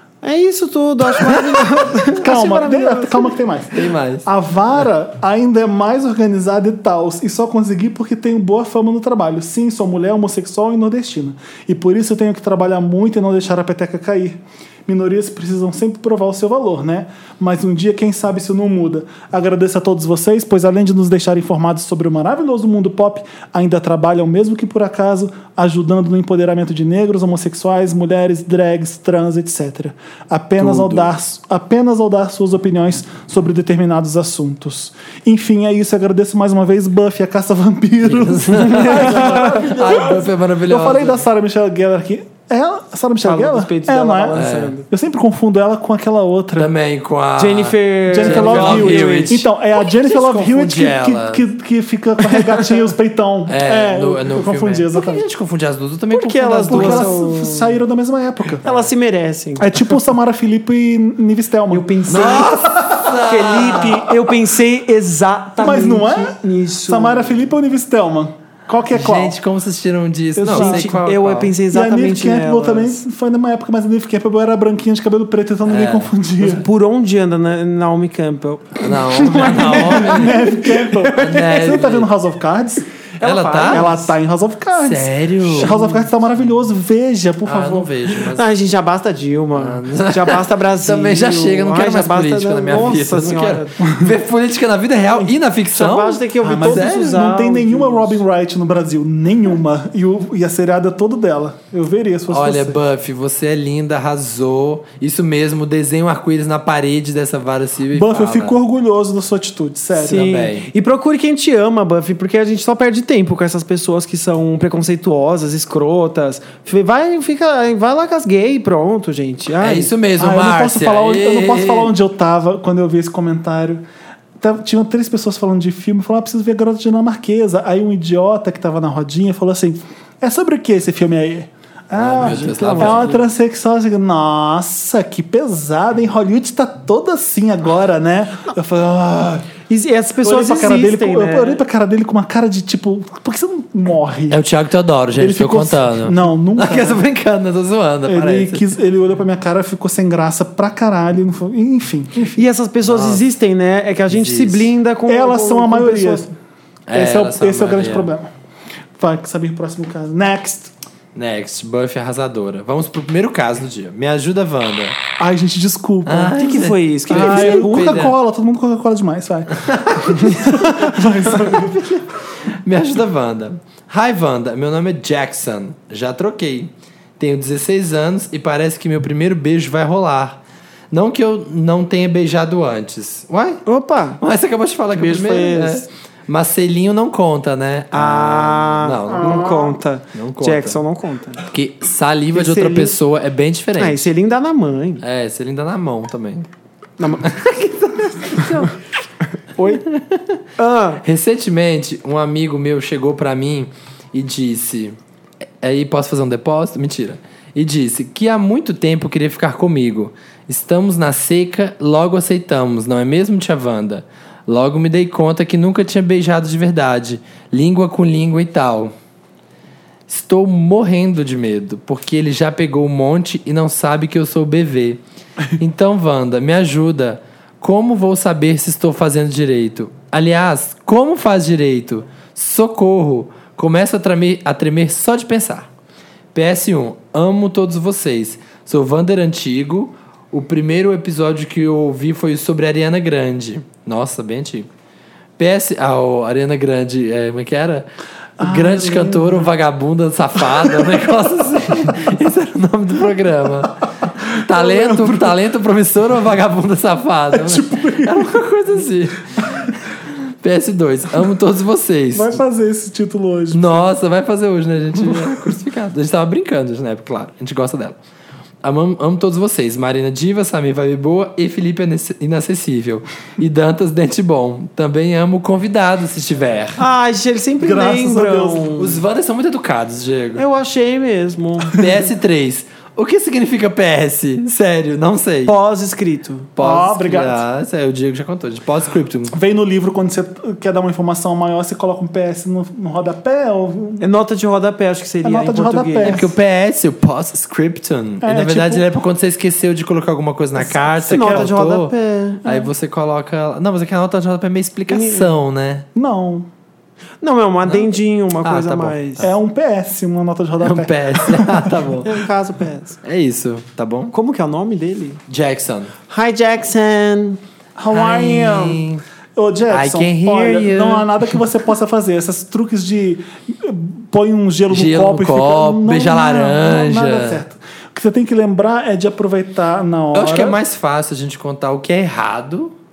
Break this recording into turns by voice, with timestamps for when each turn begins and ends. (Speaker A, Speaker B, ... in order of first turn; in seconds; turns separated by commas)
Speaker A: 0.2-3.4, Speaker B: 2.1-46.7, Speaker C: 3.7-4.3, Speaker C: 30.6-31.1, Speaker C: 38.0-41.2, Speaker A: 38.6-39.7, Speaker A: 43.2-44.9, Speaker C: 44.3-44.7, Speaker C: 46.6-51.4, Speaker A: 47.4-49.4, Speaker B: 48.1-55.2, Speaker A: 52.3-52.8, Speaker C: 53.5-57.1, Speaker A: 56.1-57.8, Speaker B: 56.7-58.6, Speaker A: 58.6-59.9, Speaker B: 59.6-63.0, Speaker A: 61.7-67.4, Speaker C: 62.1-64.3, Speaker B: 65.6-69.3, Speaker C: 68.9-71.5, Speaker B: 70.3-70.9, Speaker A: 70.5-73.0, Speaker B: 71.7-76.6, Speaker C: 75.7-76.1, Speaker A: 76.4-81.4, Speaker C: 78.8-80.4, Speaker B: 79.8-82.8, Speaker C: 81.1-82.1, Speaker A: 83.2-84.1, Speaker C: 83.2-83.9, Speaker B: 83.6-87.9, Speaker C: 84.7-85.8, Speaker A: 85.6-86.0, Speaker C: 87.4-88.5, Speaker A: 88.3-93.9, Speaker C: 89.6-97.2, Speaker A: 95.7-98.2, Speaker B: 96.4-102.8, Speaker C: 102.3-108.6, Speaker B: 107.9-110.3, Speaker A: 110.0-119.9, Speaker C: 110.1-110.7, Speaker C: 119.6-121.9, Speaker B: 120.2-123.8, Speaker B: 124.4-139.5, Speaker C: 131.9-133.2, Speaker A: 132.2-133.2, Speaker A: 139.7-141.6, Speaker B: 140.2-144.4, Speaker C: 144.3-148.7, Speaker B: 145.2-147.0, Speaker B: 148.1-152.4, Speaker A: 152.3-156.3, Speaker C: 152.8-153.2, Speaker C: 154.1-154.7, Speaker B: 155.1-156.3, Speaker C: 156.9-158.1, Speaker B: 156.9-158.3, Speaker B: 159.0-160.7, Speaker C: 161.1-165.0, Speaker B: 165.2-166.3, Speaker C: 166.1-168.2, Speaker A: 166.3-168.0, Speaker B: 167.1-171.8, Speaker C: 169.6-172.1, Speaker C: 172.6-180.4, Speaker C: 180.9-183.6, Speaker A: 183.7-184.2, Speaker C: 184.2-189.5, Speaker A: 184.9-185.9, Speaker A: 187.9-191.4, Speaker B: 189.1-189.8, Speaker C: 190.1-190.8, Speaker C: 191.5-194.1, Speaker A: 192.3-192.9, Speaker A: 193.8-195.0, Speaker C: 195.0-196.5, Speaker A: 197.0-197.3, Speaker C: 197.2-198.7, Speaker A: 198.4-198.6, Speaker A: 199.6-199.8, Speaker C: 199.8-200.4, Speaker A: 200.6-201.0, Speaker C: 201.0-204.9, Speaker C: 205.6-218.9, Speaker C: 220.1-225.0, Speaker C: 225.6-235.7, Speaker C: 236.3-244.7, Speaker C: 245.4-247.9, Speaker B: 248.4-249.5, Speaker C: 248.4-262.4, Speaker B: 254.5-255.3, Speaker B: 257.3-258.3, Speaker B: 262.1-263.8, Speaker C: 263.5-267.9, Speaker C: 268.6-276.8, Speaker A: 276.8-278.9, Speaker B: 277.6-278.9, Speaker C: 278.8-280.4, Speaker A: 280.4-281.8, Speaker C: 281.7-285.5, Speaker A: 285.4-286.5, Speaker C: 286.6-289.3, Speaker B: 286.6-287.4, Speaker B: 289.3-294.0, Speaker A: 294.0-296.2, Speaker B: 295.2-296.3, Speaker C: 296.0-301.9, Speaker B: 298.2-298.8, Speaker B: 300.6-301.5, Speaker A: 301.1-302.4, Speaker C: 302.4-305.9, Speaker A: 304.9-305.3, Speaker B: 305.9-306.5, Speaker A: 307.2-309.2, Speaker C: 308.4-309.3, Speaker B: 309.2-311.7, Speaker C: 310.6-312.1, Speaker A: 312.0-313.0, Speaker C: 313.0-314.1, Speaker A: 314.1-315.2, Speaker C: 315.3-315.9, Speaker A: 316.1-317.4, Speaker B: 317.8-318.8, Speaker C: 317.9-319.0, Speaker B: 319.4-330.6, Speaker C: 319.7-321.2, Speaker C: 324.7-327.4, Speaker C: 330.1-332.7